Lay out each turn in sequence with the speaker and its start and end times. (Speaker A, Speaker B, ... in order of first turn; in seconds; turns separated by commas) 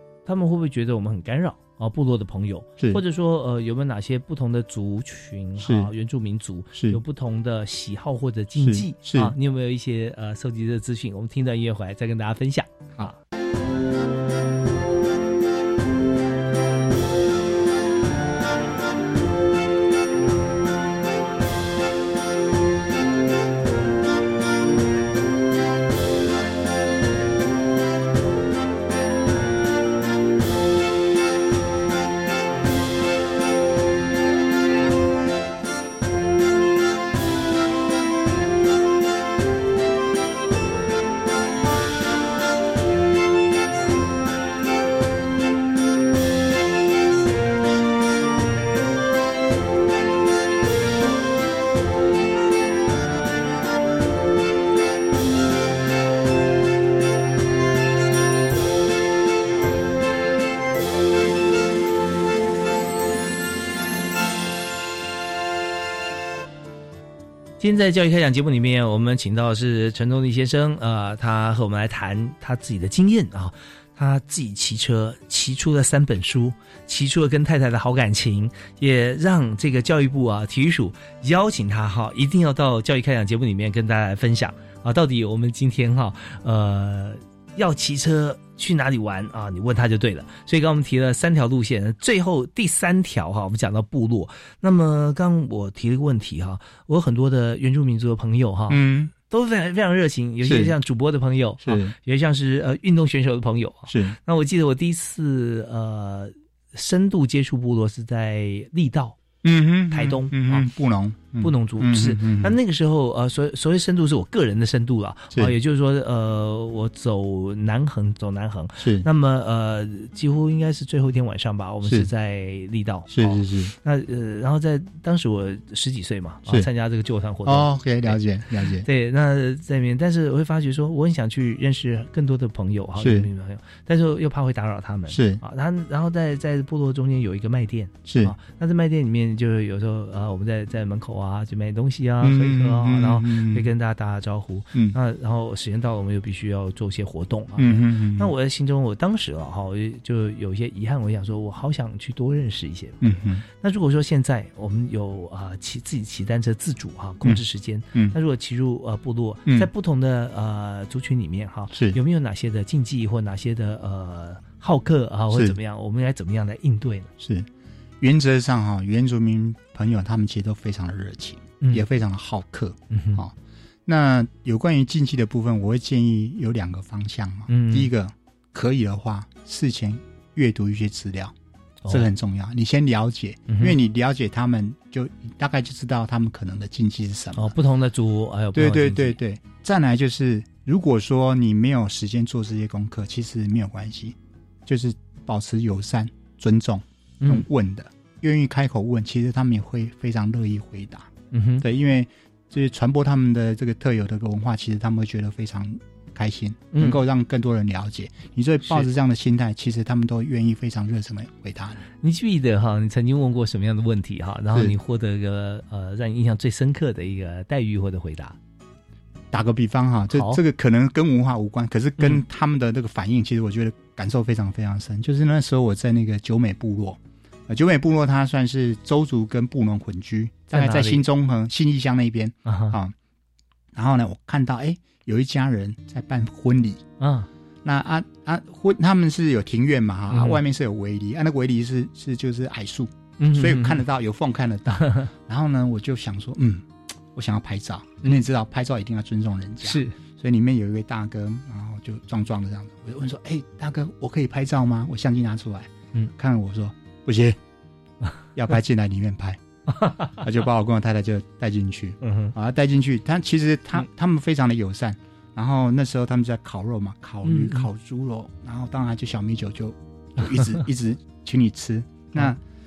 Speaker A: 0.3-13.2, Speaker B: 5.6-5.9, Speaker B: 6.8-7.0, Speaker B: 8.6-9.3, Speaker A: 67.6-109.2, Speaker B: 98.7-99.1, Speaker B: 100.4-100.8, Speaker B: 101.6-102.0, Speaker B: 103.9-104.2, Speaker B: 109.4-112.6, Speaker A: 109.9-110.7, Speaker A: 111.4-128.2, Speaker B: 118.8-119.1, Speaker B: 123.1-123.7, Speaker B: 127.5-128.9, Speaker A: 128.7-167.1, Speaker B: 133.0-133.3, Speaker B: 135.1-135.4, Speaker B: 138.1-138.3, Speaker B: 142.2-143.7, Speaker B: 147.6-148.3, Speaker B: 153.0-153.4, Speaker B: 157.2-158.2, Speaker B: 161.7-162.0, Speaker B: 167.2-167.5, Speaker B: 168.0-173.3, Speaker A: 172.9-173.2, Speaker B: 173.9-181.3, Speaker A: 177.5-177.9, Speaker B: 181.9-187.6, Speaker A: 183.5-183.8, Speaker A: 187.3-189.2, Speaker B: 188.5-201.1, Speaker A: 197.2-197.5, Speaker A: 201.3-201.7, Speaker B: 201.6-211.8, Speaker A: 206.7-207.0, Speaker A: 212.0-218.4, Speaker B: 219.3-232.9, Speaker A: 220.1-220.4, Speaker A: 230.5-231.1, Speaker A: 232.5-232.8, Speaker B: 233.7-236.8, Speaker A: 237.0-237.3, Speaker B: 237.6-257.4, Speaker A: 240.1-240.4, Speaker A: 243.2-243.8, Speaker A: 244.8-245.1, Speaker A: 249.6-250.0, Speaker B: 258.4-259.4, Speaker A: 259.7-260.2, Speaker B: 260.2-272.4, Speaker A: 262.0-262.4, Speaker A: 267.2-267.7, Speaker A: 270.2-270.6